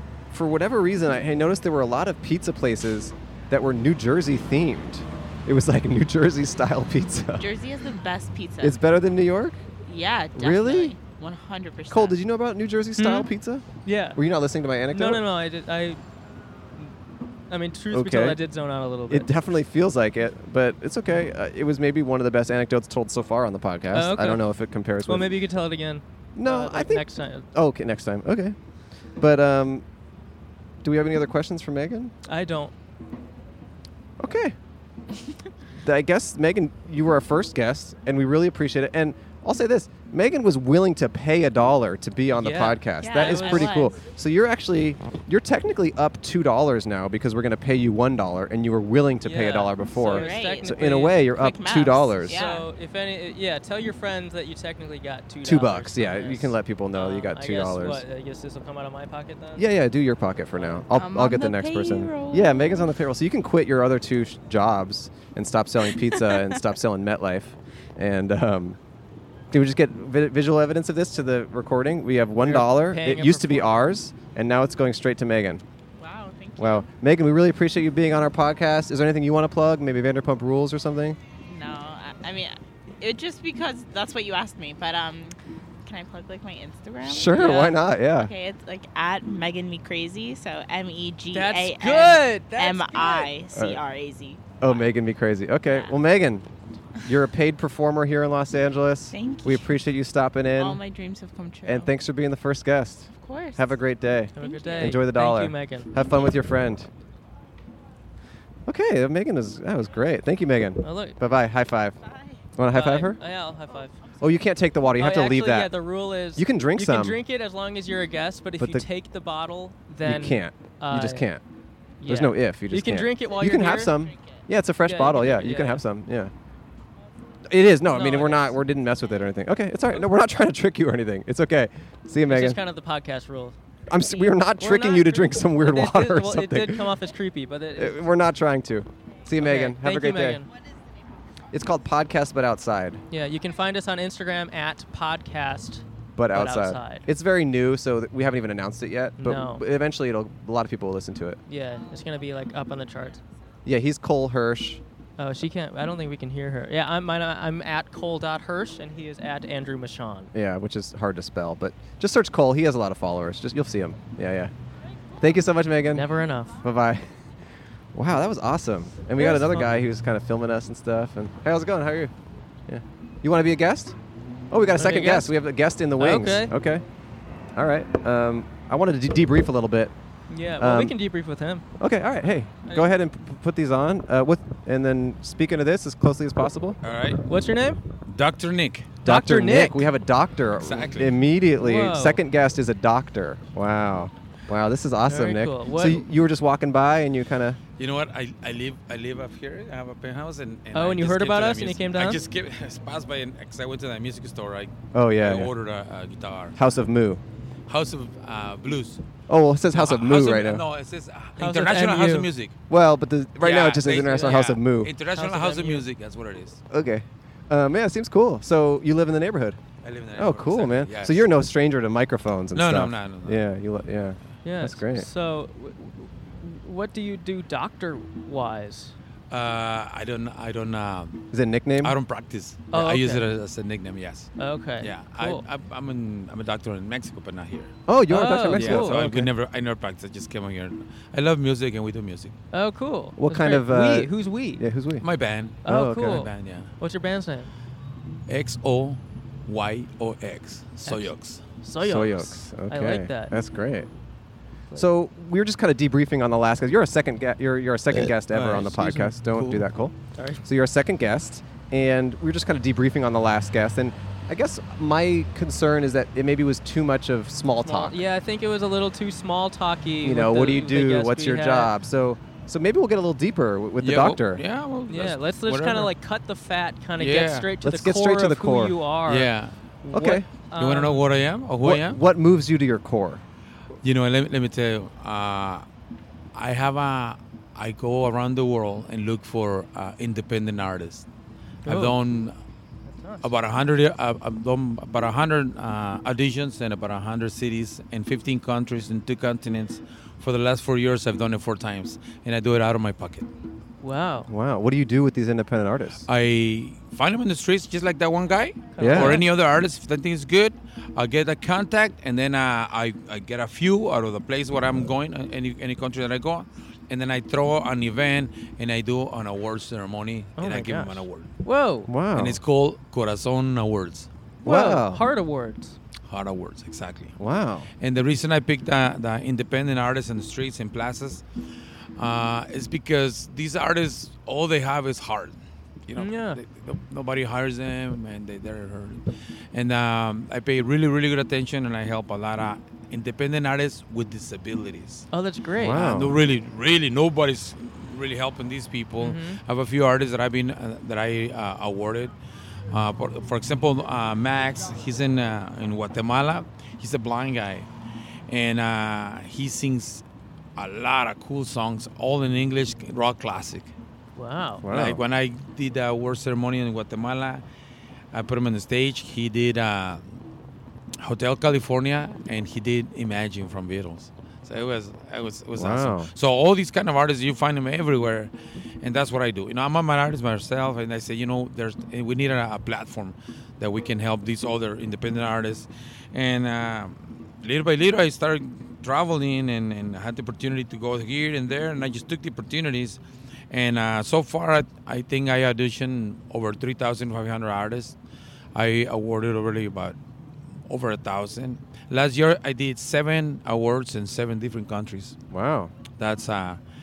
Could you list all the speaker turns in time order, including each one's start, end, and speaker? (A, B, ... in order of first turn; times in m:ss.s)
0:00.3-0:07.5 A
0:07.4-0:08.8 B
0:08.6-0:09.6 A
0:09.8-0:12.2 B
0:10.4-0:11.0 A
0:11.9-0:15.2 A
0:13.0-0:13.3 C
0:13.8-0:14.2 C
0:14.9-0:16.0 C
0:17.5-0:19.3 C
0:17.9-0:18.4 A
0:19.1-0:25.4 A
0:23.9-0:24.5 C
0:25.1-0:27.5 C
0:26.4-0:28.6 A
0:29.2-0:29.8 A
0:30.8-0:32.1 A
0:32.3-0:32.7 C
0:34.2-0:34.6 A
0:35.8-0:52.4 A
0:42.4-0:43.9 C
0:43.0-0:44.0 B
0:49.2-0:51.3 C
0:50.1-0:52.7 B
0:52.2-0:59.7 C
0:55.4-0:58.0 A
0:59.6-1:08.8 A
1:00.6-1:00.8 C
1:00.9-1:03.0 B
1:09.5-1:15.6 A
1:12.4-1:13.9 C
1:16.0-1:16.9 B
1:16.6-1:21.2 A
1:21.4-1:34.6 B
1:27.0-1:28.3 A
1:31.3-1:33.3 C
1:33.5-1:33.8 A
1:34.6-1:36.5 A
1:35.7-1:35.9 B
1:37.0-1:40.8 A
1:39.1-1:39.7 B
1:40.6-1:41.9 B
1:41.7-1:46.9 A
1:43.2-1:43.7 B
1:44.4-1:45.9 C
1:44.4-1:45.0 B
1:48.7-1:52.0 A
1:50.8-1:51.2 C
1:52.0-1:52.4 B
1:52.6-1:53.2 A
1:52.7-1:54.0 C
1:54.2-1:55.8 A
1:55.0-2:01.3 C
1:56.4-1:57.2 A
1:58.6-1:58.9 A
2:00.0-2:01.4 A
2:02.0-2:04.0 C
2:02.0-2:06.3 A
2:04.8-2:05.8 C
2:07.5-2:12.6 A
2:07.9-2:08.6 C
2:12.2-2:13.6 C
2:13.9-2:16.9 A
2:14.6-2:18.0 C
2:17.8-2:20.4 A
2:19.4-2:20.5 C
2:21.5-2:23.0 A
2:23.1-2:27.1 C
2:26.2-2:31.4 A
2:29.2-2:29.6 C
2:31.5-2:33.2 C
2:33.7-2:34.8 A
2:35.2-2:40.3 C
2:40.3-2:44.5 A
2:45.2-2:46.1 A
2:45.9-2:46.6 C
2:46.6-2:47.1 A
2:47.9-2:52.1 A
2:49.2-2:49.7 C
2:52.7-2:54.0 A
2:54.5-2:56.8 A
2:54.8-2:55.4 C
2:56.0-2:56.5 C
2:57.6-2:59.9 A
3:00.3-3:01.6 C
3:00.6-3:01.0 A
3:01.8-3:06.8 A
3:06.8-3:07.2 D
3:07.2-3:07.8 C
3:08.1-3:09.0 D
3:09.0-3:17.6 A
3:09.0-3:09.9 C
3:10.6-3:11.2 D
3:11.6-3:12.2 C
3:15.1-3:16.0 C
3:17.8-3:26.6 D
3:20.7-3:22.2 C
3:24.9-3:25.5 A
3:26.6-3:27.2 A
3:27.7-3:29.0 D
3:29.3-3:30.6 A
3:29.7-3:32.5 D
3:31.4-3:32.3 C
3:32.7-3:34.9 A
3:33.4-3:36.6 D
3:35.2-3:35.8 C
3:36.7-3:39.6 A
3:39.8-3:41.3 D
3:40.2-3:45.1 A
3:42.5-3:43.4 D
3:44.4-3:48.9 C
3:49.3-3:51.3 D
3:51.3-3:52.0 A
3:51.8-3:57.7 D
3:52.7-3:53.2 C
3:54.4-3:55.4 C
3:57.9-3:59.3 A
3:58.1-3:59.0 C
3:58.5-4:02.4 D
4:02.5-4:04.6 C
4:03.2-4:05.1 A
4:05.0-4:06.7 D
4:05.6-4:07.5 C
4:05.6-4:06.2 A
4:08.3-4:11.4 D
4:10.8-4:13.4 C
4:11.8-4:13.9 A
4:14.8-4:28.0 A
4:18.0-4:19.6 D
4:18.4-4:19.1 C
4:20.2-4:20.4 C
4:27.6-4:31.7 C
4:30.0-4:34.4 A
4:33.8-4:35.9 D
4:34.9-4:39.3 C
4:37.0-4:37.5 D
4:37.6-4:38.8 A
4:39.1-4:39.6 D
4:39.8-4:41.0 C
4:39.9-4:40.3 A
4:40.6-4:42.0 D
4:41.6-4:43.2 A
4:43.8-4:45.6 D
4:46.3-4:51.1 D
4:51.6-4:52.0 C
4:51.7-4:52.4 D
4:52.9-4:53.3 C
4:53.2-5:03.3 D
5:03.8-5:04.3 C
5:04.3-5:06.0 A
5:06.1-5:21.3 D
5:08.8-5:09.3 C
5:08.8-5:09.2 A
5:20.4-5:21.9 C
5:21.9-5:22.4 A
5:22.2-5:24.1 D
5:24.4-5:25.0 A
5:24.4-5:25.8 C
5:26.1-5:27.2 D
5:27.2-5:27.7 A
5:27.8-5:31.2 D
5:32.0-5:45.1 D
5:36.0-5:36.4 C
5:45.1-5:45.9 C
5:45.6-5:46.2 A
5:45.7-5:52.1 D
5:49.0-5:49.4 C
5:52.7-5:57.7 D
5:58.3-6:00.0 D
6:00.6-6:03.7 D
6:04.2-6:04.7 C
6:04.6-6:05.0 A
6:04.7-6:07.4 D
6:08.1-6:10.2 D
6:11.0-6:38.0 D
6:15.6-6:16.1 A
6:38.6-6:40.0 D
6:40.7-6:45.2 D
6:45.3-6:45.7 A
6:45.9-6:46.6 D